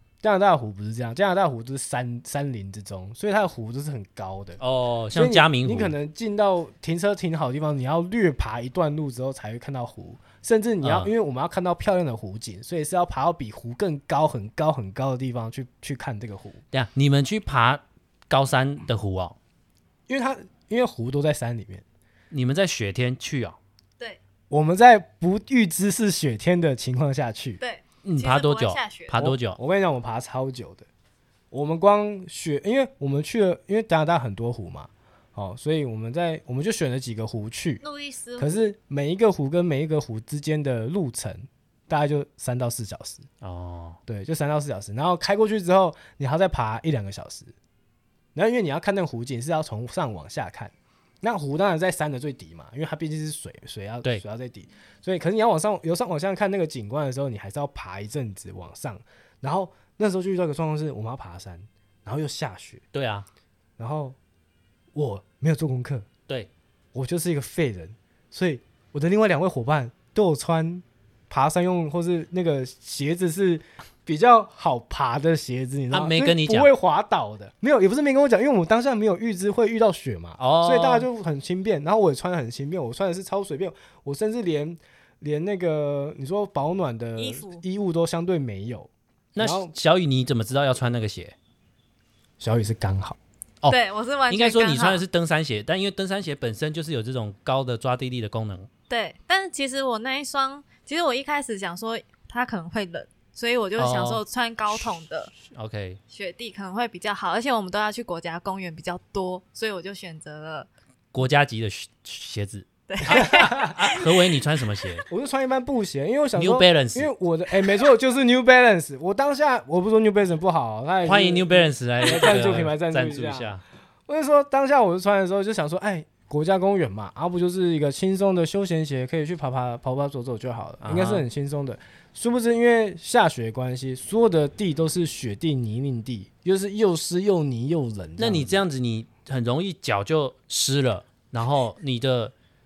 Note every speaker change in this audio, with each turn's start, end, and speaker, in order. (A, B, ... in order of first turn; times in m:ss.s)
0:00.2-0:04.6 A
0:04.6-0:05.9 B
0:05.1-0:16.6 A
0:10.8-0:11.1 B
0:16.7-0:19.4 B
0:20.1-0:21.8 A
0:22.3-0:23.6 B
0:24.5-0:27.6 A
0:27.6-0:29.2 C
0:28.0-0:29.6 B
0:29.2-0:30.9 A
0:31.5-0:37.8 A
0:37.8-0:38.6 C
0:38.4-0:43.3 A
0:43.4-0:44.0 B
0:44.1-0:47.5 A
0:48.4-1:02.8 A
1:02.9-1:03.3 B
1:03.8-1:04.2 A
1:04.9-1:06.1 A
1:06.9-1:29.7 A
1:15.9-1:16.7 B
1:20.4-1:21.1 B
1:27.2-1:27.6 C
1:29.4-1:31.4 B
1:32.4-1:33.2 A
1:33.7-1:35.0 C
1:34.3-1:38.7 B
1:38.9-1:45.3 C
1:43.8-1:44.2 B
1:45.5-1:46.0 B
1:46.1-1:50.7 C
1:51.1-1:55.1 B
1:52.9-1:54.1 C
1:53.1-1:53.8 A
1:55.1-2:18.6 A
1:56.4-1:57.1 B
2:01.0-2:03.6 B
2:10.8-2:11.2 B
2:18.2-2:22.3 B